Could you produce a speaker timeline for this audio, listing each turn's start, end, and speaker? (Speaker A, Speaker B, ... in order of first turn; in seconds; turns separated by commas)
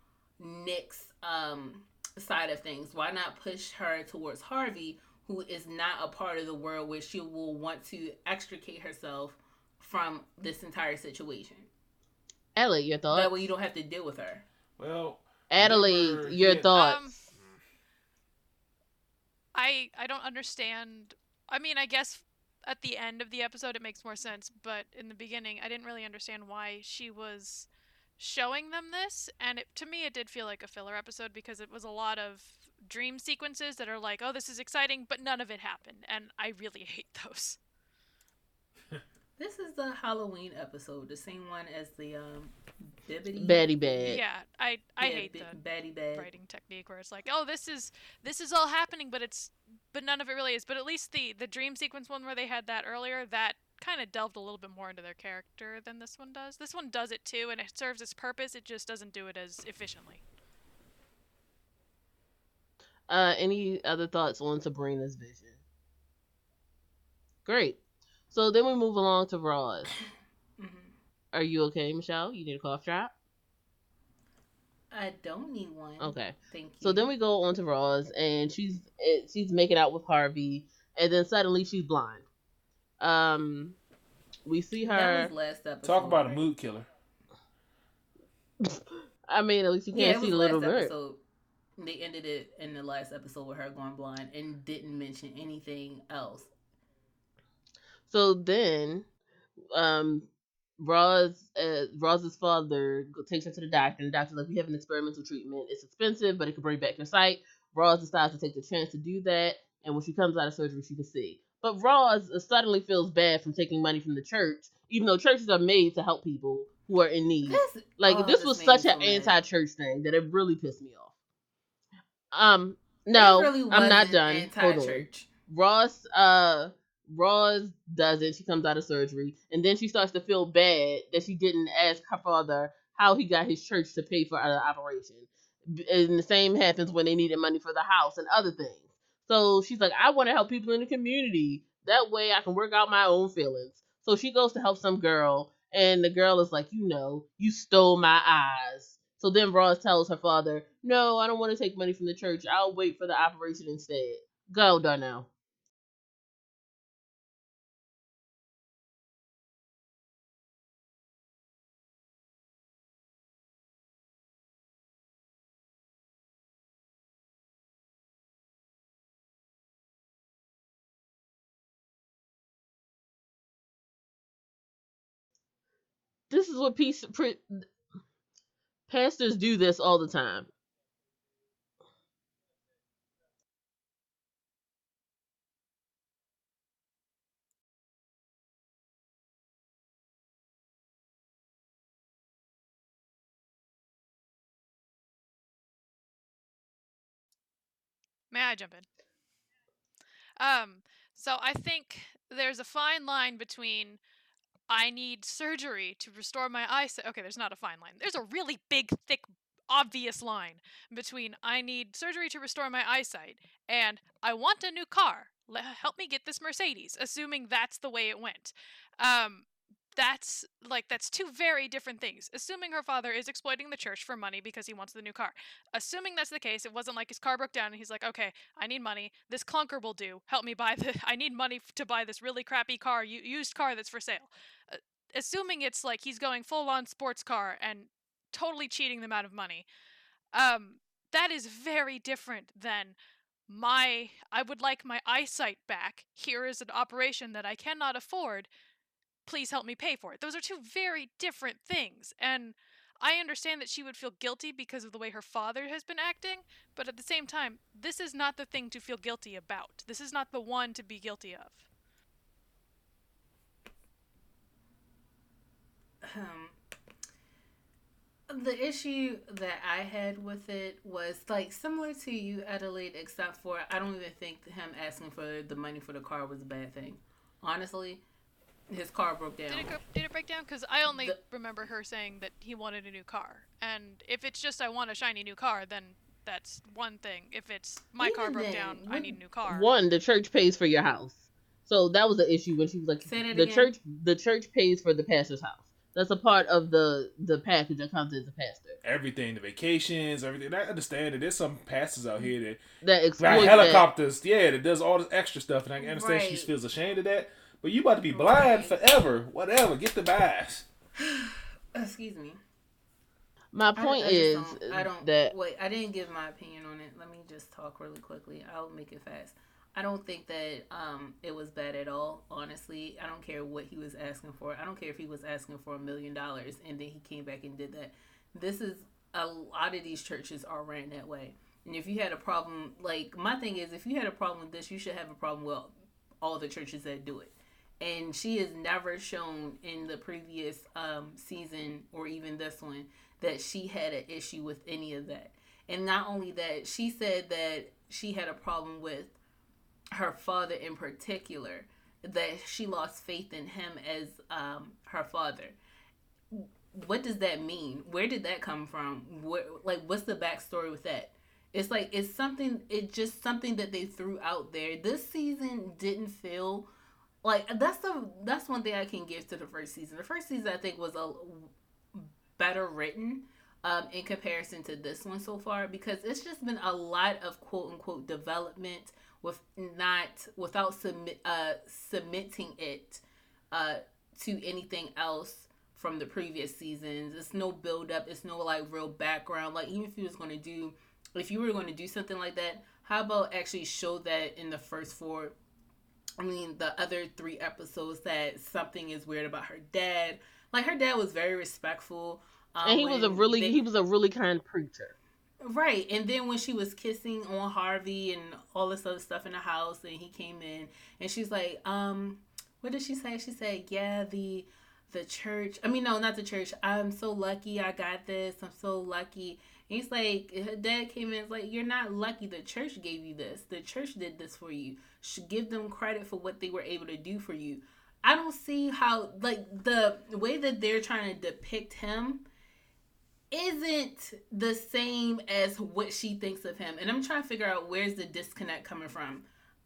Speaker A: 0.4-11.7, Speaker B: 12.6-13.3, Speaker A: 13.1-14.4, Speaker C: 14.8-16.7, Speaker B: 15.5-17.1, Speaker D: 16.7-17.2, Speaker D: 19.5-27.7, Speaker D: 28.2-37.6, Speaker A: 39.4-43.6, Speaker B: 43.4-44.2, Speaker D: 44.0-45.6, Speaker A: 45.0-46.3, Speaker D: 46.1-60.2, Speaker B: 63.1-65.5, Speaker B: 67.4-67.8, Speaker B: 68.3-69.9, Speaker A: 70.6-70.9, Speaker B: 71.3-73.1, Speaker A: 74.9-77.1, Speaker B: 76.0-82.2, Speaker B: 83.0-83.8, Speaker B: 84.4-85.3, Speaker A: 84.9-86.5, Speaker C: 85.8-86.9, Speaker B: 88.6-90.9, Speaker A: 89.9-91.2, Speaker A: 91.8-96.5, Speaker B: 98.1-99.0, Speaker B: 99.7-100.3, Speaker B: 100.8-121.1, Speaker A: 117.5-119.4, Speaker B: 122.3-155.3, Speaker A: 123.1-125.3, Speaker B: 176.3-177.7, Speaker B: 178.9-180.5, Speaker D: 198.3-198.8, Speaker D: 200.4-204.0, Speaker D: 204.7-239.7, Speaker D: 240.3-242.9, Speaker D: 243.5-248.5, Speaker D: 249.2-261.6, Speaker A: 266.0-266.5, Speaker A: 268.3-278.0, Speaker A: 278.7-279.7, Speaker D: 279.5-289.7, Speaker A: 288.0-289.1, Speaker B: 289.5-298.8, Speaker A: 293.0-293.7, Speaker C: 298.8-302.6, Speaker B: 302.8-303.9, Speaker C: 303.2-310.6, Speaker A: 303.3-303.8, Speaker A: 305.8-306.5, Speaker A: 308.1-308.8, Speaker A: 311.0-312.4, Speaker B: 313.5-315.3, Speaker A: 313.8-349.1, Speaker A: 349.9-355.6, Speaker A: 356.3-366.7, Speaker A: 367.2-395.3, Speaker A: 396.2-403.6, Speaker B: 402.6-404.9, Speaker A: 405.4-432.2, Speaker A: 433.3-439.3